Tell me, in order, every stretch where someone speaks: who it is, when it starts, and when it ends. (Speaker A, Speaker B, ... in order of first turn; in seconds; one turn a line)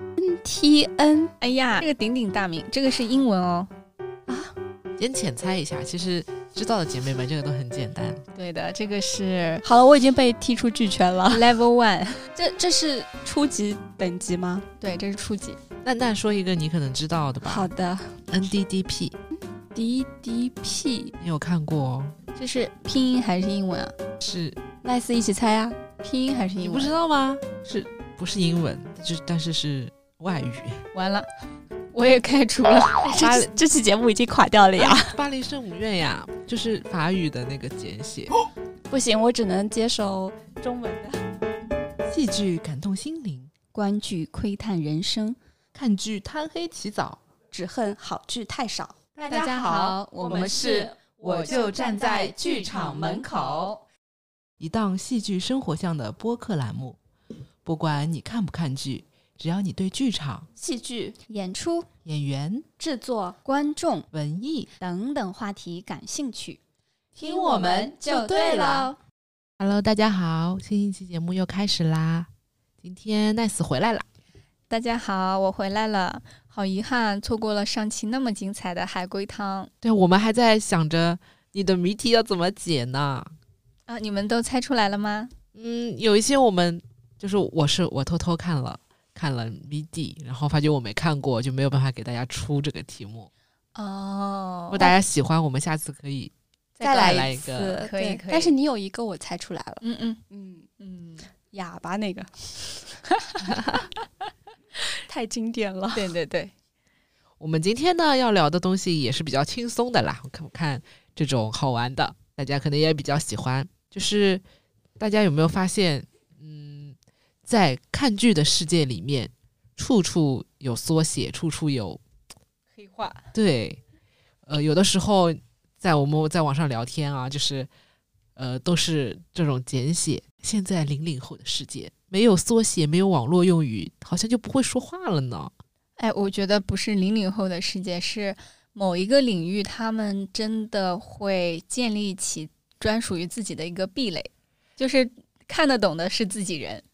Speaker A: 0.2-1.3
Speaker B: 1.4-3.7
Speaker A: 4.3-4.5
Speaker C: 5.0-8.2
Speaker B: 8.3-9.6
Speaker A: 9.6-11.5
Speaker B: 11.3-12.4
Speaker A: 12.4-14.7
Speaker B: 14.8-15.6
Speaker C: 15.8-17.7
Speaker A: 17.5-18.2
Speaker C: 18.3-19.2
Speaker A: 19.8-21.1
Speaker C: 21.2-22.2
Speaker B: 22.4-24.0
Speaker C: 24.2-24.6
Speaker A: 24.8-25.8
Speaker B: 26.0-26.9
Speaker C: 26.6-30.9
Speaker B: 30.9-31.3
Speaker B: 31.9-33.4
Speaker A: 33.0-35.2
Speaker C: 34.8-38.3
Speaker A: 38.9-41.2
Speaker C: 42.0-43.5
Speaker B: 43.7-45.4
Speaker C: 45.7-47.2
Speaker A: 47.5-53.2
Speaker B: 49.3-53.8
Speaker C: 49.3-53.7
Speaker C: 54.6-57.0
Speaker C: 57.6-60.5
Speaker A: 60.6-61.2
Speaker B: 61.3-61.9
Speaker C: 62.0-62.7
Speaker A: 62.8-63.4
Speaker B: 63.4-64.1
Speaker C: 64.1-64.7
Speaker B: 64.8-66.6
Speaker A: 67.2-68.9
Speaker B: 67.2-69.0
Speaker C: 67.6-67.9
Speaker C: 69.6-72.3
Speaker C: 72.8-74.1
Speaker B: 74.7-79.7
Speaker C: 79.8-83.3
Speaker B: 83.9-85.3
Speaker C: 85.5-93.3
Speaker B: 93.8-95.0
Speaker C: 94.7-96.3
Speaker B: 96.8-98.5
Speaker A: 96.8-100.7
Speaker C: 96.9-97.8
Speaker B: 99.8-100.2
Speaker B: 100.8-101.3
Speaker A: 101.5-102.8
Speaker C: 103.5-103.8
Speaker A: 105.1-106.1
Speaker B: 105.9-106.5
Speaker C: 107.4-114.4
Speaker C: 115.0-122.0
Speaker B: 122.8-123.3
Speaker C: 123.3-123.8
Speaker C: 124.5-127.7
Speaker C: 128.4-135.5
Speaker B: 136.0-146.8